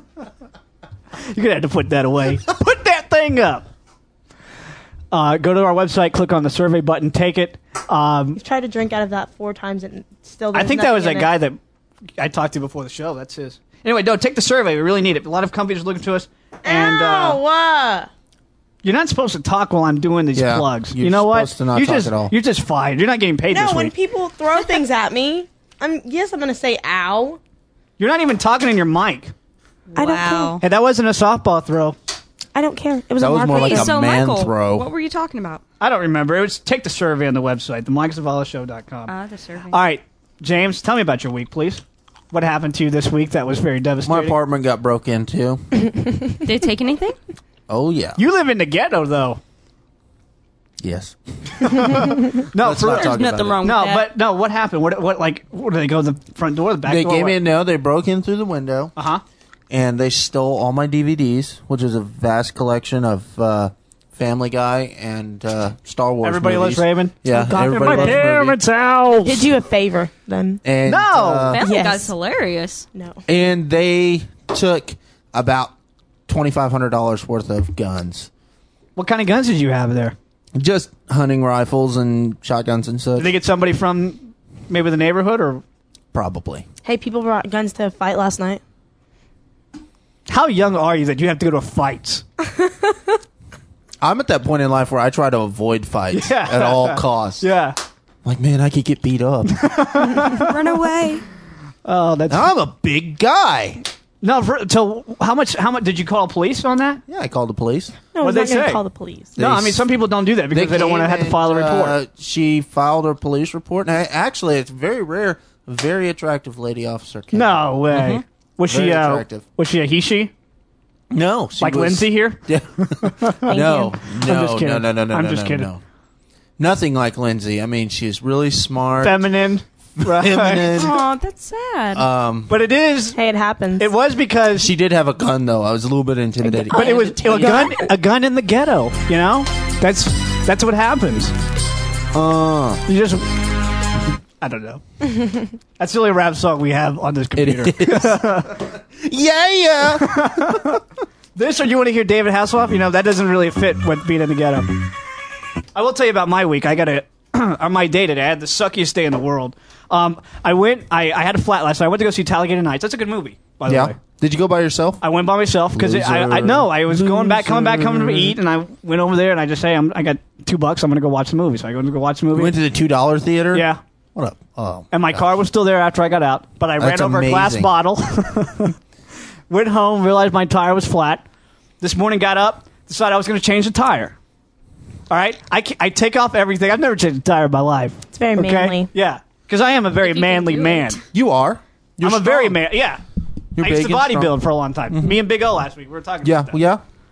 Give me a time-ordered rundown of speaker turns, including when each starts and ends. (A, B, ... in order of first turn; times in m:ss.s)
0:01.2-0:03.7 A
0:05.1-0:08.4 A
0:08.4-0:11.3 B
0:10.5-0:11.6 A
0:12.2-0:17.4 A
0:16.6-0:18.1 B
0:18.8-0:23.9 A
0:20.3-0:22.3 C
0:23.5-0:27.4 B
0:28.0-0:29.3 A
0:29.9-0:30.6 D
0:30.0-0:30.6 B
0:30.6-0:32.0 A
0:32.5-0:34.0 B
0:33.2-0:34.9 C
0:33.5-0:35.6 D
0:35.8-0:39.1 A
0:39.1-0:39.8 D
0:39.7-0:44.4 A
0:44.0-0:45.6 C
0:46.4-0:47.2 D
0:47.7-0:48.2 C
0:48.2-0:49.4 A
0:50.8-0:51.9 C
0:51.6-0:57.4 A
0:52.5-0:53.6 C
0:52.9-0:54.0 D
0:56.8-0:58.9 C
0:59.0-0:59.2 A
0:59.7-1:08.6 C
1:06.2-1:09.5 A
1:07.3-1:08.2 B
1:09.2-1:10.6 B
1:10.6-1:11.6 C
1:10.9-1:11.5 A
1:11.5-1:12.9 D
1:11.6-1:12.2 B
1:12.9-1:13.2 B
1:13.3-1:15.7 C
1:16.3-1:18.3 C
1:19.0-1:20.2 A
1:20.6-1:23.4 C
1:23.2-1:25.6 A
1:26.1-1:26.7 C
1:26.8-1:28.6 B
1:30.3-1:32.2 A
1:32.6-1:33.0 B
1:34.0-1:37.4 C
1:36.1-1:37.8 A
1:38.2-1:40.1 C
1:39.5-1:40.5 A
1:40.3-1:41.2 D
1:41.8-1:42.5 A
1:42.3-1:43.8 C
1:44.2-1:47.0 A
1:47.1-1:48.0 C
1:48.1-1:49.4 B
1:48.2-1:48.8 A
1:49.4-1:49.9 C
1:49.4-1:52.0 A
1:50.5-1:59.4 C
1:57.3-2:00.3 A
2:01.1-2:05.8 C
2:01.6-2:03.5 A
2:03.5-2:04.0 B
2:04.2-2:05.7 A
2:06.6-2:09.3 C
2:09.0-2:10.9 A
2:10.0-2:11.0 C
2:10.7-2:12.1 D
2:11.9-2:12.6 C
2:12.5-2:13.2 A
2:13.2-2:13.9 B
2:13.8-2:14.7 A
2:14.5-2:17.6 C
2:16.4-2:17.9 B
2:16.7-2:21.3 A
2:22.1-2:22.8 C
2:22.9-2:23.2 A
2:24.4-2:24.8 A
2:25.8-2:28.6 A
2:27.4-2:30.7 C
2:30.0-2:30.8 A
2:31.4-2:34.8 A
2:35.8-2:44.0 A
2:43.7-2:45.1 C
2:45.0-2:52.6 A
2:45.7-2:48.4 C
2:52.3-2:55.4 C
2:53.5-2:53.8 A
2:54.9-2:58.8 A
2:56.8-2:57.7 C
2:59.5-3:01.2 A
3:01.8-3:04.2 A
3:05.1-3:11.0 A
3:08.1-3:08.9 B
3:10.0-3:11.0 D
3:11.1-3:12.6 C
3:12.0-3:13.0 A
3:13.5-3:14.4 C
3:13.6-3:16.6 A
3:14.9-3:15.2 C
3:16.2-3:16.8 C